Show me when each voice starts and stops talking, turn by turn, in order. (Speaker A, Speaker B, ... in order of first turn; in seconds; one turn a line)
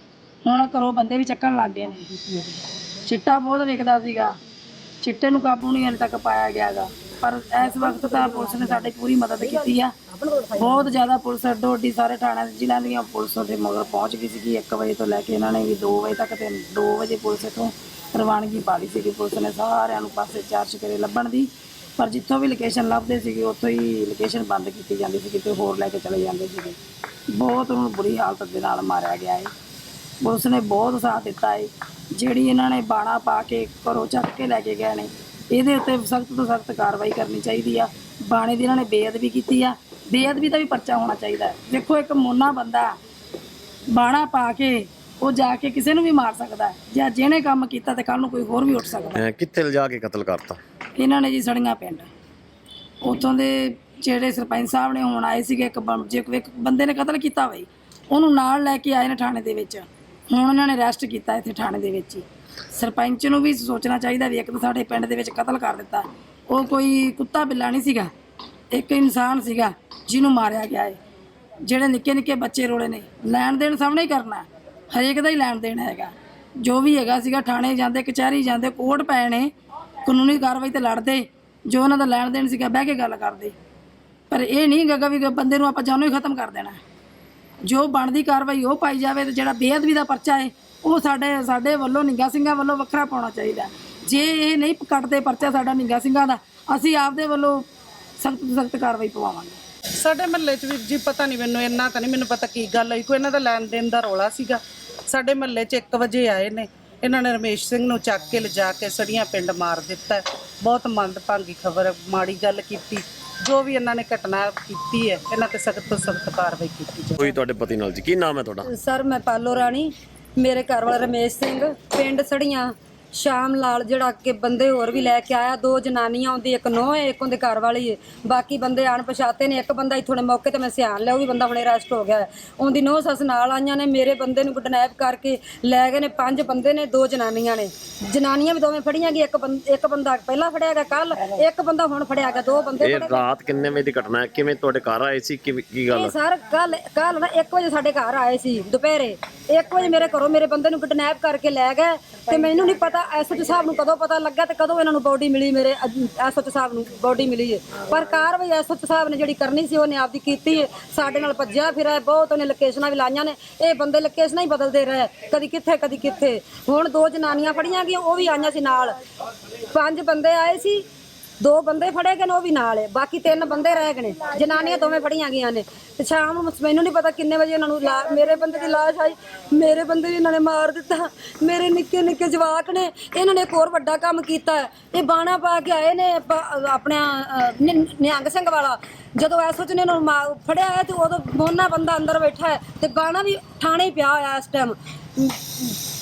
Speaker A: 0.4-2.5
Speaker A: 3.0-4.3
Speaker A: 5.0-9.9
Speaker B: 10.2-10.5
Speaker A: 10.6-26.8
Speaker A: 27.3-29.5
Speaker A: 30.2-43.0
Speaker A: 43.9-49.2
Speaker C: 49.2-50.6
Speaker A: 51.0-52.1
Speaker A: 53.0-68.1
Speaker A: 68.7-71.0
Speaker A: 71.6-79.5
Speaker A: 80.0-83.5
Speaker A: 84.3-86.8
Speaker A: 87.7-97.7
Speaker A: 98.2-99.6
Speaker D: 100.0-117.3
Speaker C: 117.2-118.7
Speaker B: 118.7-143.2
Speaker C: 142.8-146.1
Speaker B: 145.9-169.0
Speaker B: 169.7-170.8
Speaker B: 171.4-195.8